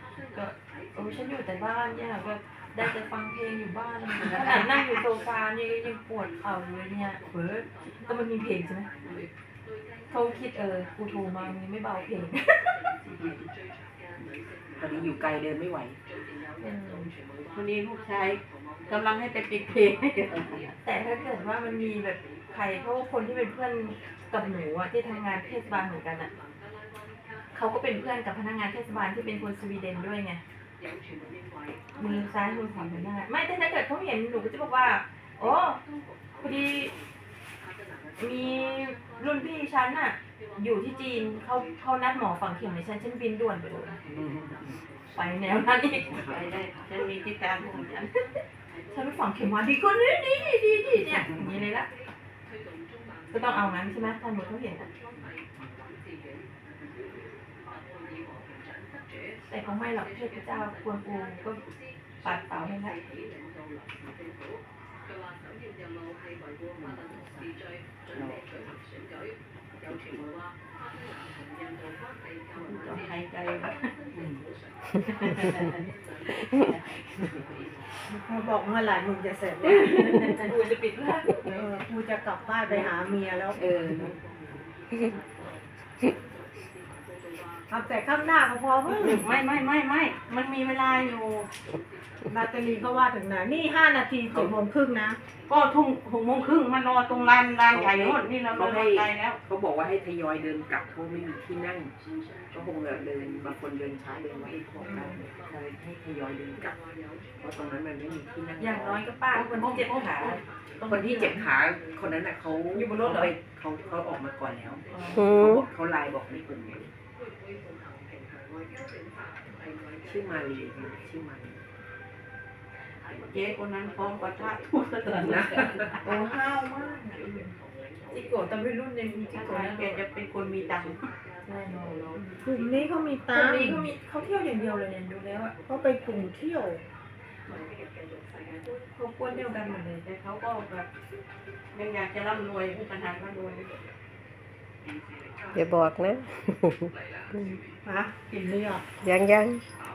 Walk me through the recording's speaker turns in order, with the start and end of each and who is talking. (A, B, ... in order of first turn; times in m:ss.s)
0:00.3-0:08.9 A
0:04.2-0:04.7 B
0:09.0-0:09.3 B
0:10.1-0:13.0 A
0:13.1-0:13.4 B
0:14.8-0:16.0 C
0:16.6-0:17.1 A
0:17.5-0:20.7 B
0:20.8-0:26.3 A
0:27.5-0:30.4 A
0:32.0-0:35.8 A
0:36.4-0:36.9 A
0:38.2-0:44.0 A
0:44.1-0:44.8 C
0:45.1-0:47.0 A
0:46.0-0:46.5 C
0:46.2-0:47.9 B
0:47.6-0:48.4 A
0:48.9-0:51.9 A
0:53.3-0:54.9 A
0:55.1-0:55.8 C
0:59.5-1:01.6 A
1:02.2-1:03.0 A
1:06.8-1:07.5 C
1:08.1-1:08.8 C
1:09.8-1:10.2 C
1:12.6-1:13.8 B
1:14.1-1:14.4 C
1:15.2-1:15.7 A
1:16.4-1:16.7 A
1:17.2-1:17.6 C
1:18.1-1:20.3 D
1:19.8-1:21.4 A
1:21.5-1:23.7 D
1:23.5-1:24.4 C
1:27.7-1:29.3 D
1:29.0-1:31.5 B
1:32.3-1:35.2 D
1:34.3-1:34.6 C
1:35.5-1:39.4 B
1:37.7-1:41.9 C
1:42.5-1:46.8 C
1:47.4-1:56.9 C
1:48.6-1:51.5 A
1:52.7-1:53.3 A
1:54.9-1:55.2 A
1:55.1-1:55.6 E
2:00.0-2:01.6 C
2:03.2-2:05.9 B
2:05.0-2:06.0 C
2:06.0-2:07.5 A
2:08.1-2:10.0 A
2:09.3-2:11.1 B
2:11.4-2:12.2 A
2:12.4-2:13.9 D
2:13.3-2:15.5 A
2:15.6-2:16.8 D
2:18.9-2:20.0 A
2:20.0-2:20.9 B
2:21.7-2:23.7 B
2:25.5-2:27.6 E
2:27.8-2:28.8 D
2:29.0-2:29.6 E